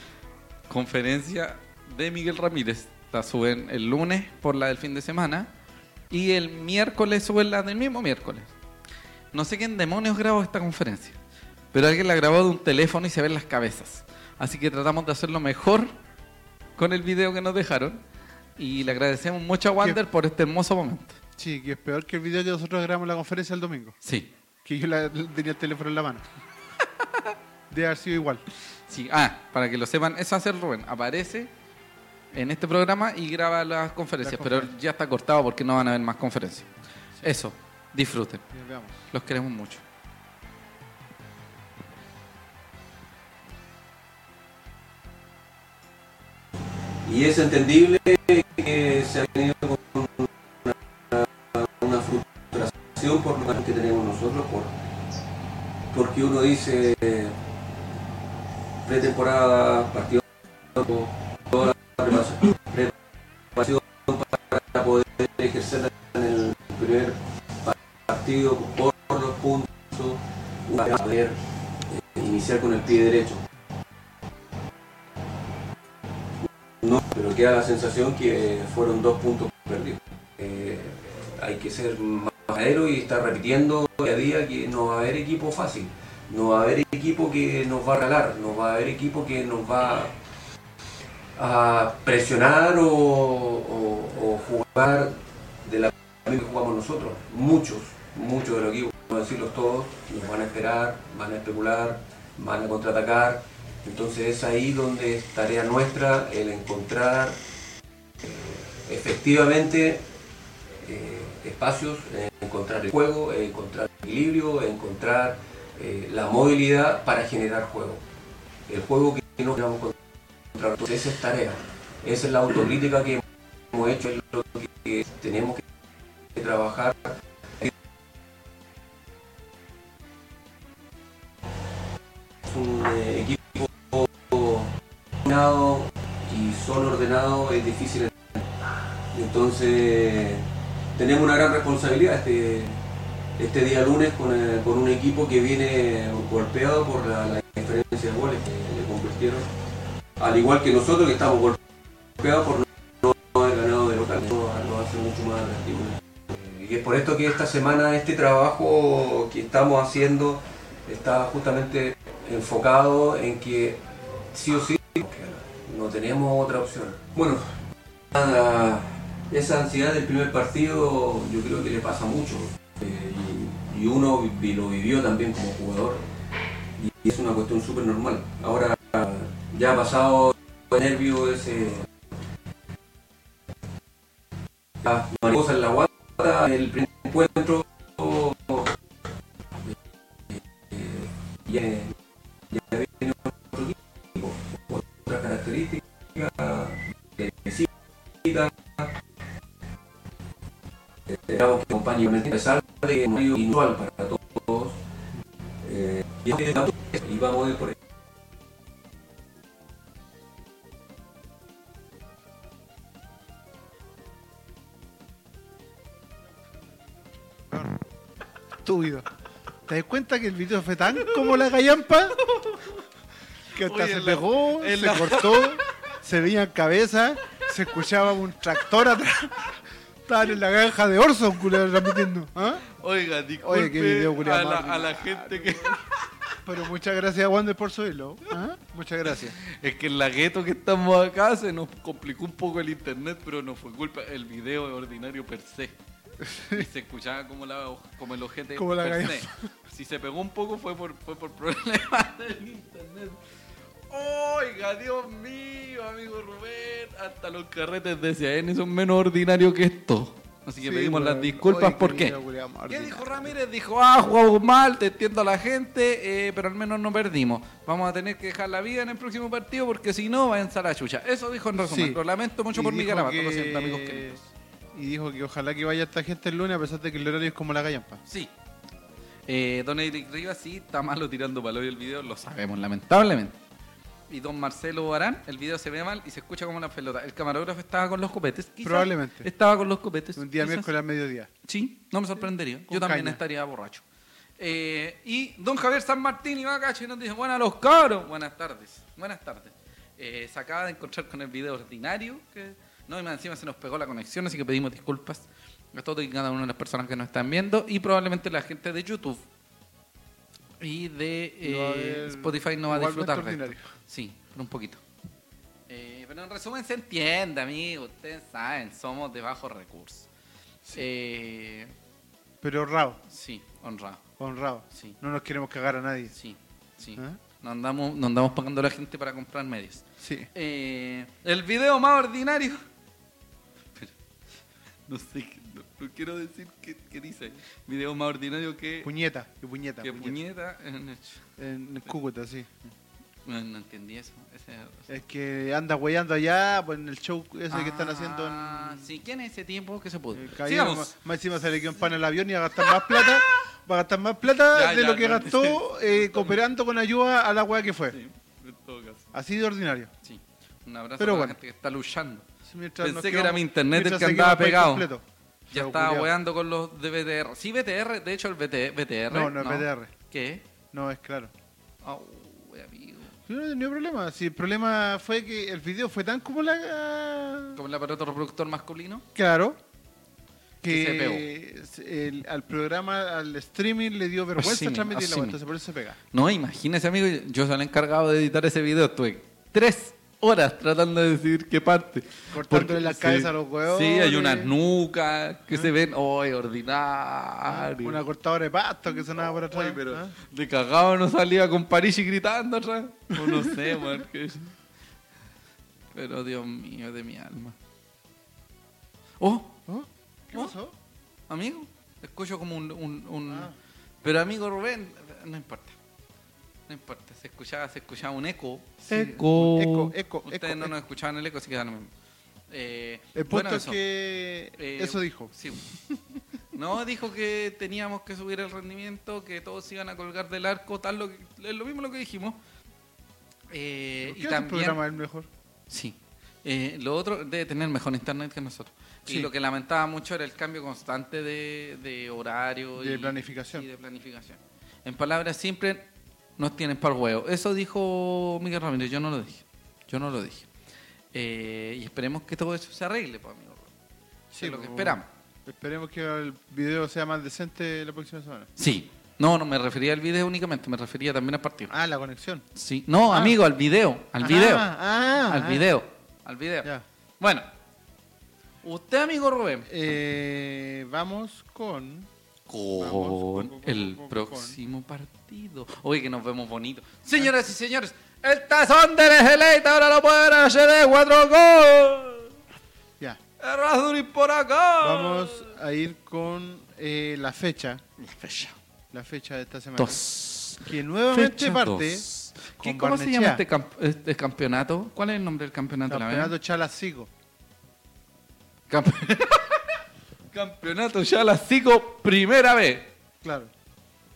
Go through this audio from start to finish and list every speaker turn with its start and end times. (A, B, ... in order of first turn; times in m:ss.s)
0:00.7-0:05.5 A
0:06.1-0:08.5 A
0:09.3-0:11.2 A
0:11.7-0:16.0 A
0:16.8-0:18.0 A
0:18.6-0:21.2 A
0:21.4-0:24.0 B
0:24.0-0:24.3 A
0:24.6-0:26.2 B
0:27.0-0:27.3 A
0:27.7-0:28.4 B
0:28.9-0:31.5 A
0:32.3-0:36.7 A
0:34.2-0:34.7 B
0:37.2-0:38.4 A
0:38.5-0:39.1 B
0:39.1-0:39.8 A
0:47.0-0:54.8 C
0:55.9-0:57.4 C
0:58.8-1:03.0 C
1:03.6-1:13.4 C
1:16.8-1:30.2 C
1:31.4-1:47.4 C
1:48.2-1:50.0 C
1:50.8-1:58.0 C
1:58.7-2:00.0 C
2:00.5-2:05.6 C
2:06.4-2:07.7 C
2:12.4-2:22.8 C
2:23.4-2:29.5 C
2:30.2-2:31.6 C
2:32.2-2:47.6 C
2:48.1-2:56.0 C
2:56.8-3:01.9 C
3:04.8-3:08.8 C
3:10.3-3:12.0 C
3:12.5-3:17.7 C
3:18.2-3:19.0 C
3:21.1-3:24.8 C
3:25.6-3:27.8 C
3:37.5-3:37.8 B
3:38.6-3:39.1 B
3:39.7-3:42.2 B
3:42.2-3:42.8 A
3:43.5-3:52.6 B
3:43.6-3:45.7 A
3:52.7-3:56.1 A
3:53.4-3:55.8 B
3:56.4-3:59.4 B
3:59.4-4:05.8 A
4:06.2-4:06.7 B
4:06.4-4:13.2 A
4:08.6-4:09.5 B
4:13.9-4:22.2 A
4:20.6-4:23.4 B
4:22.7-4:34.3 A
4:31.6-4:32.0 B
4:32.5-4:34.2 B
4:34.7-4:38.0 B
4:38.1-4:38.3 A
4:39.3-4:43.4 A
4:44.1-4:50.8 A
4:48.6-4:49.3 B
4:50.2-4:51.3 B
4:51.4-4:53.8 A
4:52.7-4:53.2 B
4:54.4-5:09.2 A
5:10.6-5:14.8 A
5:11.4-5:13.7 B
5:15.7-5:20.1 A
5:20.8-5:21.7 A
5:22.4-5:23.0 B
5:23.1-5:24.0 A
5:24.2-5:26.2 B
5:24.7-5:25.0 A
5:26.1-5:32.6 A
5:30.0-5:30.3 B
5:34.9-5:38.9 A
5:38.8-5:40.2 B
5:39.8-5:41.2 A
5:41.4-5:42.5 B
5:43.2-5:44.9 A
5:44.9-5:48.9 B
5:47.5-5:50.9 A
5:50.1-5:58.0 B
5:52.7-5:53.3 A
5:54.5-5:56.4 A
5:57.9-5:59.1 A
5:59.1-5:59.9 B
6:00.0-6:02.3 A
6:01.0-6:01.4 B
6:02.4-6:06.1 B
6:02.8-6:04.9 A
6:05.5-6:10.4 A
6:09.1-6:09.9 B
6:10.7-6:11.3 B
6:11.8-6:13.2 A
6:13.3-6:17.6 B
6:17.6-6:19.0 A
6:19.2-6:19.6 B
6:20.6-6:26.0 B
6:20.7-6:21.3 A
6:24.4-6:25.4 A
6:26.1-6:38.0 A
6:32.3-6:34.5 B
6:37.5-6:40.2 B
6:39.3-6:44.5 A
6:43.1-6:44.0 B
6:45.9-6:47.6 A
6:49.2-6:49.6 A
6:49.7-6:50.8 B
6:51.3-6:53.5 A
6:53.3-6:53.6 B
6:54.0-6:55.8 A
6:56.7-7:01.9 A
6:58.8-7:00.7 B
7:02.5-7:03.8 A
7:03.2-7:05.3 B
7:04.6-7:05.7 A
7:06.5-7:12.4 A
7:13.5-7:14.8 A
7:14.0-7:15.3 B
7:15.7-7:30.5 A
7:19.1-7:19.3 B
7:22.8-7:23.7 B
7:31.1-7:33.7 A
7:34.3-7:38.5 B
7:34.4-7:35.1 A
7:38.6-7:41.7 A
7:41.7-7:42.4 B
7:42.6-7:44.7 A
7:43.1-7:43.4 B
7:44.2-7:45.7 B
7:45.2-7:47.5 A
7:48.6-7:49.7 A
7:49.7-7:52.1 B
7:52.5-8:02.3 A
7:52.8-7:54.6 B
8:03.4-8:05.5 A
8:04.8-8:07.8 B
8:08.0-8:08.6 A
8:08.9-8:10.0 B
8:09.8-8:16.3 A
8:10.6-8:13.4 B
8:15.9-8:17.1 B
8:18.7-8:22.9 A
8:23.2-8:23.5 B